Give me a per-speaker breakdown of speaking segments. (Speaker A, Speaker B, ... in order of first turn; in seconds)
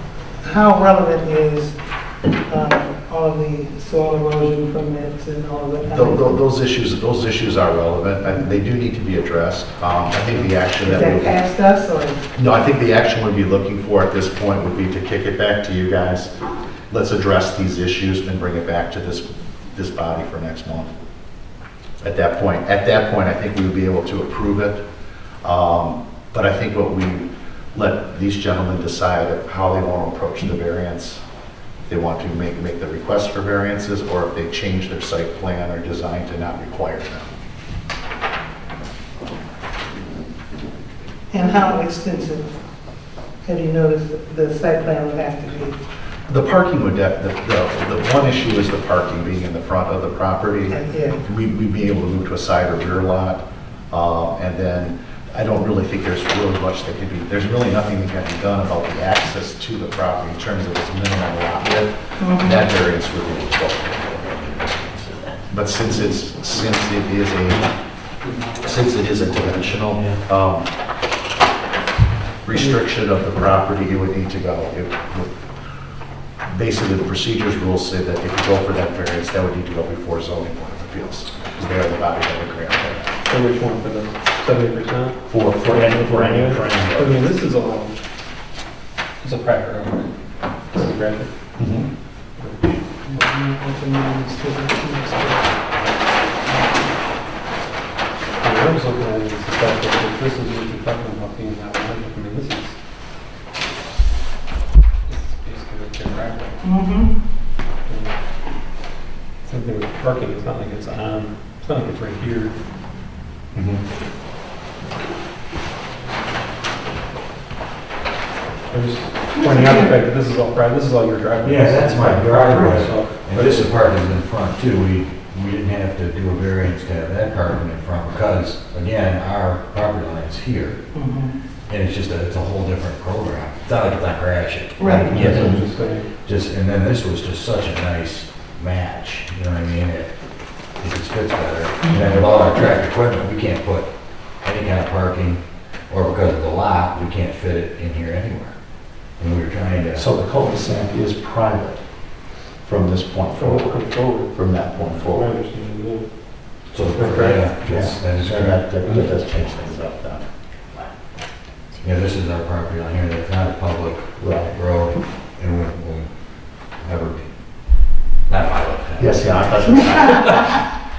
Speaker A: 0.4-1.8, 2.5-6.4, 10.8-12.2, 41.3-42.5, 43.4-45.8, 50.7-51.2, 62.2-62.6, 93.0-95.6, 96.5-96.8, 106.6-107.1, 119.3-119.9, 130.9-131.3, 134.8-135.3
Speaker B: 5.9-11.4, 12.3-16.3, 16.9-20.9, 22.0-24.8, 25.4-31.2, 31.9-37.3, 46.3-70.7, 72.4-75.5, 76.5-83.1, 85.3-87.3, 91.6-91.9, 149.9-151.8, 152.6-155.3, 157.7-160.2, 164.2-164.5, 169.0-170.4
Speaker C: 83.3-88.0, 89.2-90.1, 90.7-91.3, 98.4-102.8, 105.1-106.7, 107.8-108.2, 109.4-112.6, 118.7-123.7, 134.9-136.1, 153.3-156.1, 156.9-157.9
Speaker D: 121.4-130.9, 131.7-135.6, 136.1-140.2, 140.8-148.6, 149.2-150.1, 156.7-158.9, 161.8-166.1, 166.8-167.3, 168.3-170.5